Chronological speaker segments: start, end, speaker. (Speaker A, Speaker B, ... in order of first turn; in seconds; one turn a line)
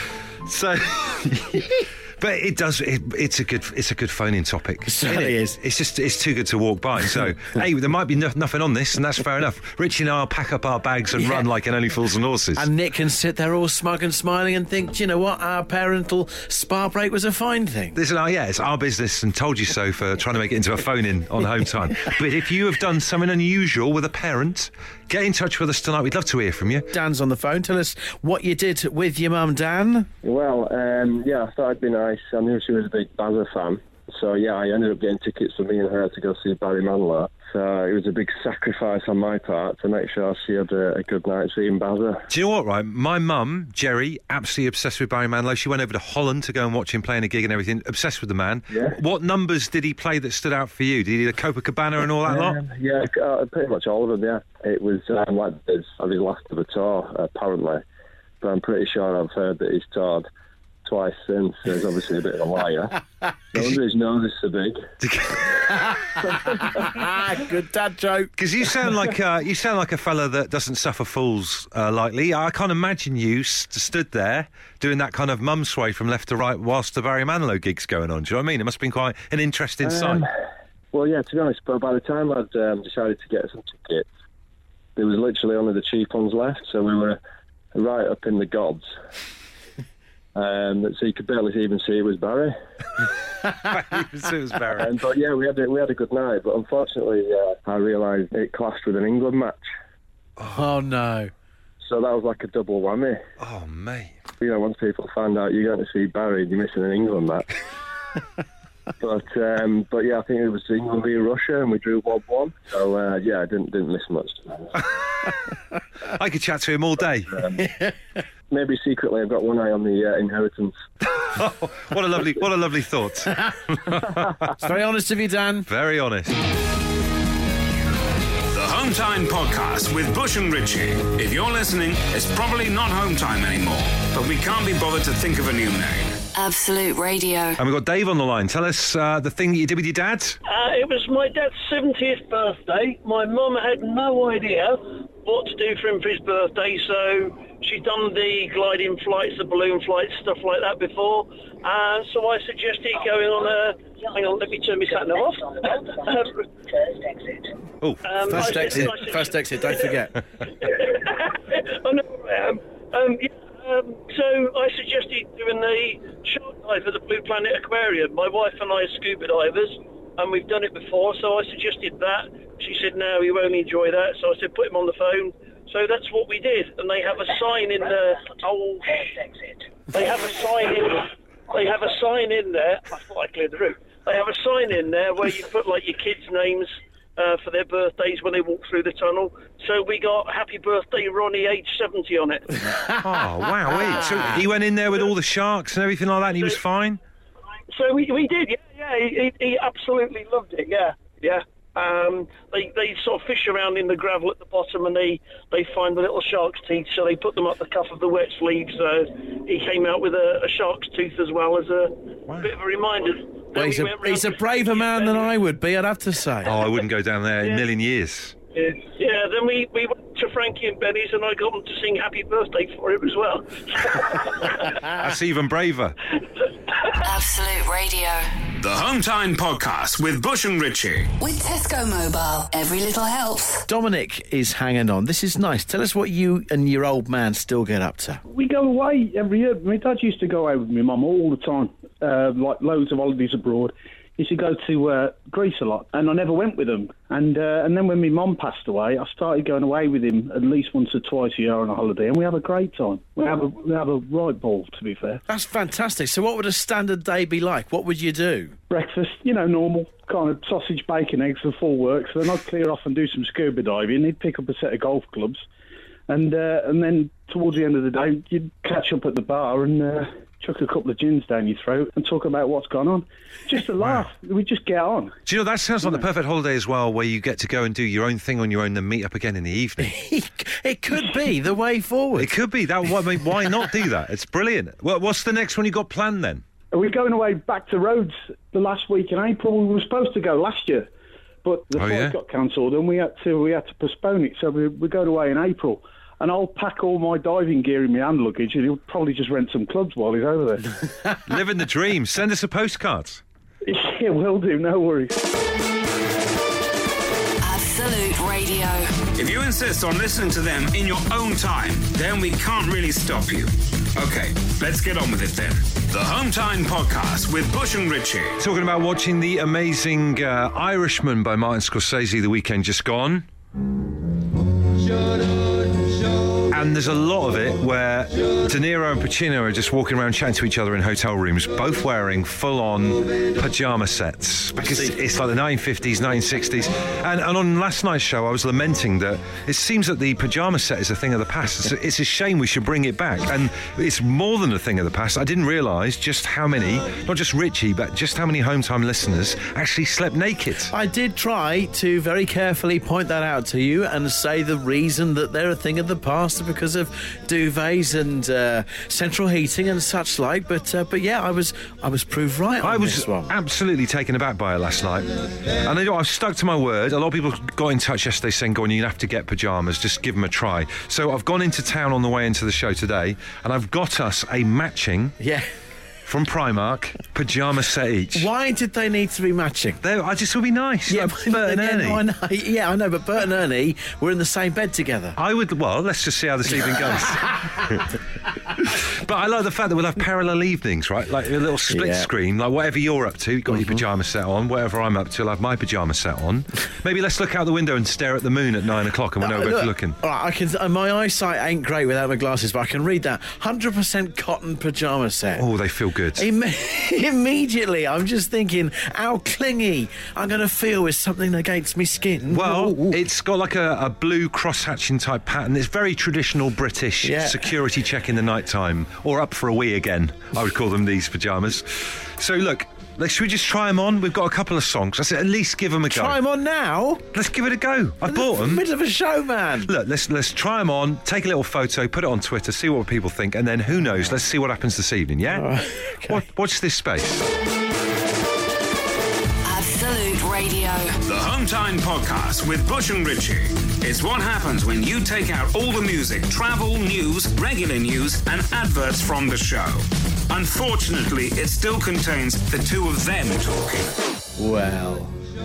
Speaker A: 0.4-12.7
Speaker B: 4.8-5.6
Speaker B: 11.2-11.4
Speaker B: 12.6-18.0
Speaker A: 17.9-26.9
Speaker B: 26.9-30.1
Speaker C: 30.2-42.2
Speaker A: 42.3-52.6
Speaker C: 52.2-57.8
Speaker C: 58.4-60.3
Speaker C: 60.9-63.0
Speaker C: 63.5-64.8
Speaker A: 65.0-65.7
Speaker B: 66.7-68.3
Speaker A: 68.4-80.3
Speaker C: 79.8-80.3
Speaker C: 80.9-84.1
Speaker C: 85.0-87.2
Speaker C: 87.7-88.9
Speaker C: 90.3-92.5
Speaker A: 93.6-95.0
Speaker C: 94.8-99.7
Speaker B: 100.5-101.3
Speaker C: 101.8-103.2
Speaker A: 103.4-104.2
Speaker C: 104.4-107.5
Speaker C: 109.0-114.7
Speaker A: 116.1-117.4
Speaker B: 117.6-117.9
Speaker C: 118.5-120.8
Speaker A: 121.2-124.6
Speaker B: 124.5-125.7
Speaker A: 125.7-126.3
Speaker D: 128.5-136.2
Speaker E: 136.3-137.6
Speaker A: 137.6-140.4
Speaker F: 140.4-157.4
Speaker A: 157.8-158.9
Speaker F: 158.0-160.0
Speaker B: 158.3-160.2
Speaker F: 160.5-179.3
Speaker F: 179.9-192.6
Speaker A: 193.0-197.0
Speaker F: 197.7-215.3
Speaker B: 213.5-216.6
Speaker A: 216.4-218.3
Speaker F: 218.5-224.8
Speaker A: 224.9-225.9
Speaker E: 227.0-228.4
Speaker D: 228.6-231.1
Speaker E: 231.2-233.6
Speaker B: 233.7-238.2
Speaker G: 238.3-255.2
Speaker B: 255.3-258.6
Speaker G: 258.7-265.4
Speaker G: 266.1-275.1
Speaker A: 273.8-274.1
Speaker A: 275.2-279.9
Speaker B: 279.8-282.3
Speaker A: 282.2-286.4
Speaker G: 286.7-290.9
Speaker G: 291.4-300.7
Speaker A: 291.8-292.1
Speaker A: 301.2-303.2
Speaker G: 303.6-305.1
Speaker E: 307.4-308.9
Speaker D: 309.1-318.4
Speaker A: 318.4-323.3
Speaker A: 326.5-350.7
Speaker B: 334.6-335.0
Speaker B: 350.7-363.3
Speaker A: 362.6-375.1
Speaker B: 375.2-375.4
Speaker A: 376.1-378.3
Speaker B: 378.1-379.8
Speaker A: 379.8-382.0
Speaker B: 380.9-385.2
Speaker A: 385.2-387.9
Speaker A: 388.5-400.0
Speaker B: 391.7-392.1
Speaker B: 393.5-393.8
Speaker B: 399.2-405.5
Speaker A: 405.4-406.3
Speaker B: 406.1-413.0
Speaker A: 412.3-426.2
Speaker B: 417.0-417.5
Speaker B: 425.9-427.1
Speaker A: 427.1-428.6
Speaker B: 428.0-429.7
Speaker A: 429.6-435.5
Speaker B: 435.3-436.2
Speaker A: 436.1-437.2
Speaker E: 439.4-441.0
Speaker D: 441.1-453.9
Speaker B: 454.4-455.1